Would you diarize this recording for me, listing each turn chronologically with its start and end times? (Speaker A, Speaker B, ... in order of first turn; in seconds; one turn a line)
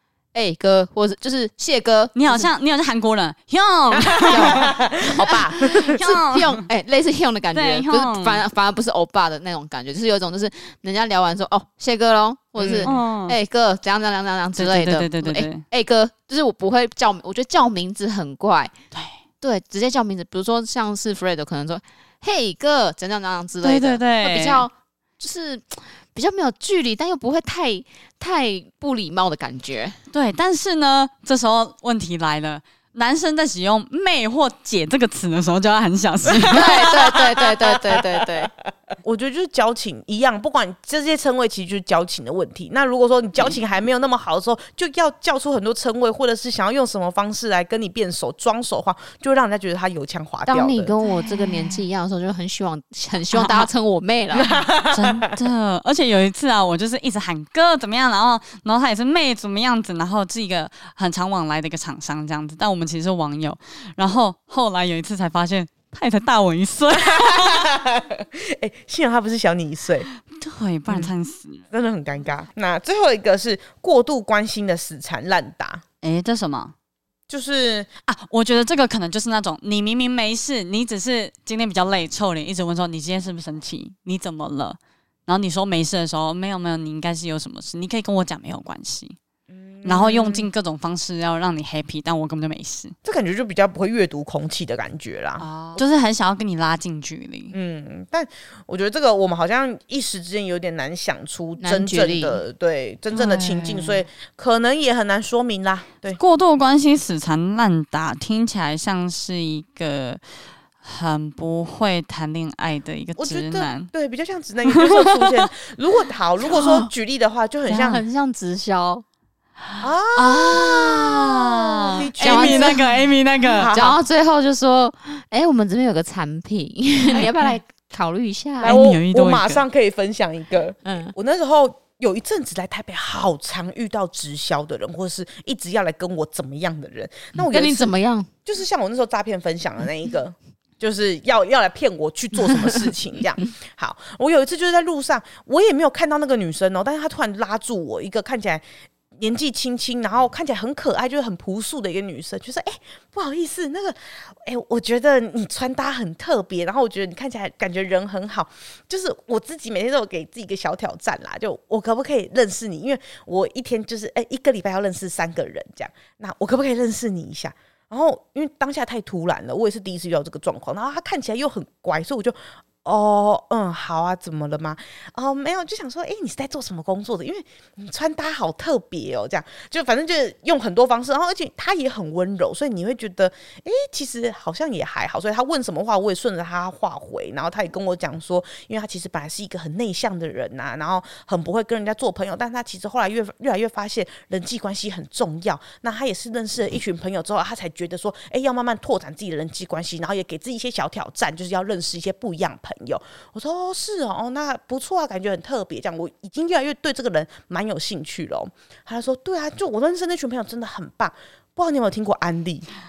Speaker A: 0.3-2.5
Speaker B: 2.1-4.6
Speaker C: 4.0-6.0
Speaker A: 4.3-18.7
Speaker B: 5.5-6.7
Speaker B: 7.5-8.4
Speaker C: 12.6-12.9
Speaker B: 12.8-13.4
Speaker B: 14.6-15.6
Speaker A: 19.4-30.0
Speaker B: 23.6-24.7
Speaker B: 30.1-36.8
Speaker C: 36.3-38.5
Speaker A: 36.5-38.5
Speaker C: 39.0-50.9
Speaker A: 50.5-54.5
Speaker B: 51.0-51.8
Speaker B: 53.3-53.7
Speaker C: 54.3-55.3
Speaker B: 54.9-67.7
Speaker C: 67.0-70.1
Speaker B: 70.3-71.6
Speaker C: 71.7-75.8
Speaker B: 76.0-76.7
Speaker C: 77.3-77.9
Speaker B: 78.1-89.2
Speaker C: 89.5-90.5
Speaker B: 89.8-93.0
Speaker C: 93.0-95.8
Speaker B: 95.4-97.5
Speaker C: 97.5-106.2
Speaker A: 101.6-102.4
Speaker B: 103.1-104.0
Speaker B: 106.1-110.2
Speaker B: 110.8-113.9
Speaker C: 113.2-118.0
Speaker B: 114.7-115.5
Speaker A: 117.7-119.0
Speaker B: 119.8-123.7
Speaker C: 119.8-122.8
Speaker A: 122.2-122.9
Speaker C: 123.5-124.0
Speaker A: 123.7-128.8
Speaker C: 128.6-137.9
Speaker B: 128.6-129.6
Speaker A: 130.8-131.1
Speaker A: 137.4-138.3
Speaker C: 138.5-148.6
Speaker C: 149.2-212.7